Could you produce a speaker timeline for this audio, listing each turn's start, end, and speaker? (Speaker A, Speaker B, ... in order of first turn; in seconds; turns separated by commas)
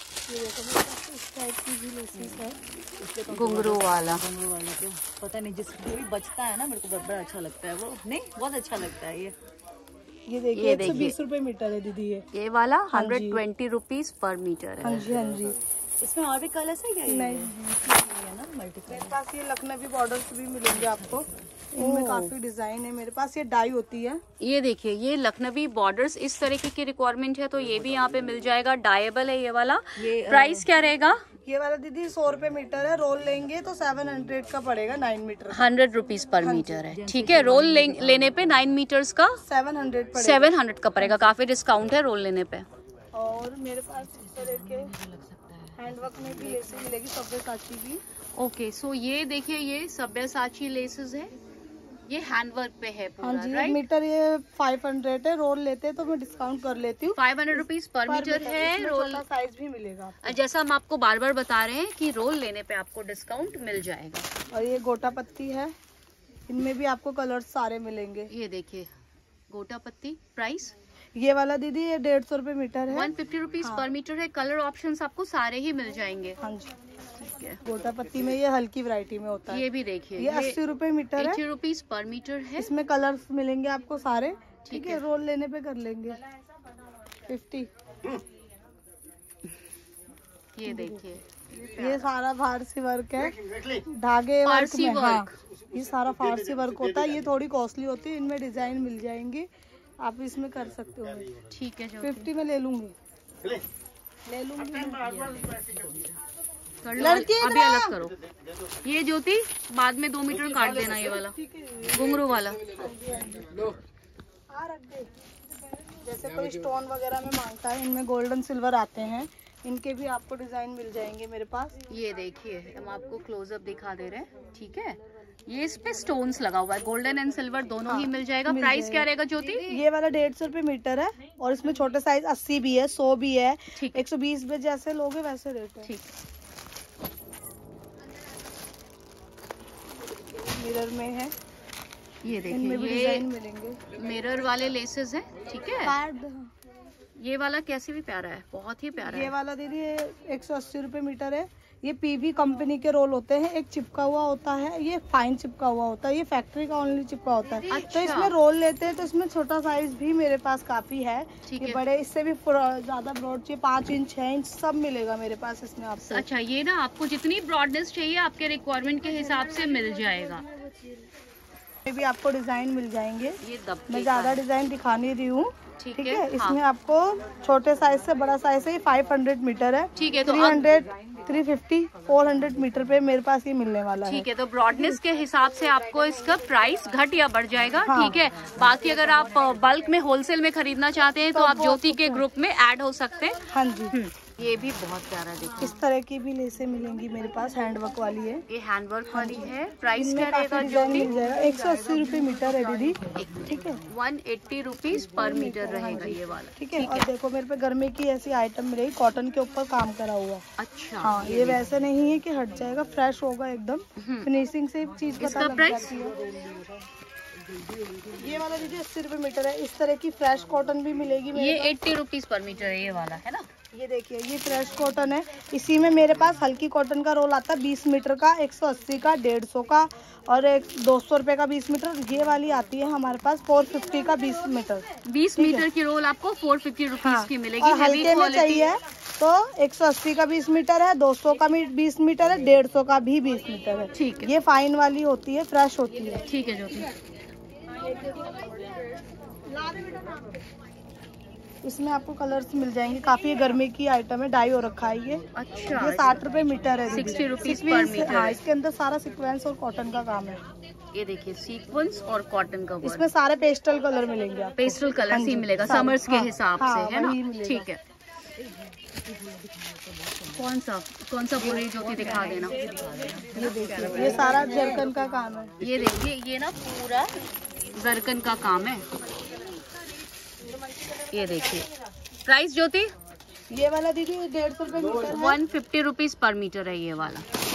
Speaker A: 0.3-2.6, Speaker B: 2.8-9.3, Speaker C: 3.3-4.2, Speaker A: 10.3-12.2, Speaker C: 10.5-11.2, Speaker C: 12.3-15.1, Speaker A: 12.9-13.4, Speaker A: 14.8-15.6, Speaker B: 16.0-19.1, Speaker A: 17.1-17.6, Speaker A: 18.9-24.2, Speaker B: 20.7-21.5, Speaker C: 21.8-22.3, Speaker C: 24.4-31.2, Speaker B: 30.0-30.7, Speaker A: 31.5-35.7, Speaker C: 35.5-39.4, Speaker A: 36.4-36.9, Speaker B: 36.9-38.4, Speaker A: 39.5-40.6, Speaker C: 40.1-42.7, Speaker A: 43.1-44.9, Speaker B: 44.4-46.6, Speaker A: 45.8-48.0, Speaker C: 48.4-51.3, Speaker C: 52.1-53.8, Speaker A: 53.2-60.4, Speaker C: 57.1-59.2, Speaker C: 60.2-64.3, Speaker A: 64.5-65.7, Speaker A: 66.5-68.3, Speaker C: 68.3-68.9, Speaker C: 69.5-70.8, Speaker A: 71.2-73.1, Speaker C: 72.9-76.4, Speaker A: 73.6-73.9, Speaker A: 76.4-76.7, Speaker C: 77.2-77.6, Speaker A: 77.6-79.7, Speaker C: 79.5-80.6, Speaker A: 80.2-81.4, Speaker C: 81.2-82.7, Speaker A: 82.6-86.2, Speaker C: 84.7-85.0, Speaker A: 87.3-87.7, Speaker C: 90.5-92.1, Speaker A: 90.7-91.0, Speaker A: 91.8-99.5, Speaker C: 94.5-95.4, Speaker A: 100.0-101.3, Speaker C: 101.5-102.3, Speaker A: 102.0-103.0, Speaker A: 104.3-105.2, Speaker B: 105.0-106.2, Speaker C: 106.8-108.2, Speaker A: 107.0-108.0, Speaker C: 108.8-112.6, Speaker A: 110.8-112.1, Speaker A: 112.7-113.8, Speaker A: 114.5-115.1, Speaker A: 115.7-121.8, Speaker C: 121.9-129.8, Speaker A: 127.9-135.9, Speaker C: 133.8-134.1, Speaker C: 135.8-136.1, Speaker A: 140.3-141.3, Speaker C: 142.2-143.3, Speaker A: 142.5-143.8, Speaker C: 143.9-145.9, Speaker A: 145.8-146.5, Speaker C: 147.2-149.3, Speaker A: 149.1-166.3, Speaker C: 157.7-158.3, Speaker C: 161.5-161.8, Speaker C: 166.0-170.5, Speaker A: 170.7-170.9, Speaker A: 171.9-185.0, Speaker C: 173.4-174.4, Speaker C: 175.8-176.6, Speaker C: 180.0-180.7, Speaker B: 181.0-181.3, Speaker C: 184.1-195.8, Speaker A: 187.8-188.3, Speaker B: 188.3-189.4, Speaker A: 191.3-192.3, Speaker A: 193.5-193.9, Speaker A: 195.6-198.4, Speaker C: 198.5-201.1, Speaker A: 199.1-203.8, Speaker B: 201.2-203.5, Speaker C: 203.2-207.1, Speaker A: 205.1-210.4, Speaker C: 210.6-211.6, Speaker A: 211.0-216.3, Speaker C: 214.0-214.3, Speaker C: 215.2-216.0, Speaker A: 218.1-221.8, Speaker C: 221.3-223.5, Speaker A: 223.7-234.8, Speaker C: 235.1-238.7, Speaker A: 235.4-235.7, Speaker A: 237.0-246.2, Speaker C: 243.9-244.3, Speaker C: 246.2-246.9, Speaker A: 247.9-248.4, Speaker A: 249.6-250.4, Speaker A: 251.6-260.4, Speaker C: 255.3-256.3, Speaker C: 256.8-258.4, Speaker C: 260.9-263.1, Speaker A: 262.8-267.7, Speaker C: 264.6-267.8, Speaker B: 268.4-270.5, Speaker C: 270.4-274.2, Speaker B: 271.4-274.9, Speaker A: 273.3-275.6, Speaker C: 275.6-277.1, Speaker C: 277.7-278.9, Speaker C: 281.1-281.7, Speaker C: 282.2-282.9, Speaker A: 283.5-285.4, Speaker C: 285.1-287.2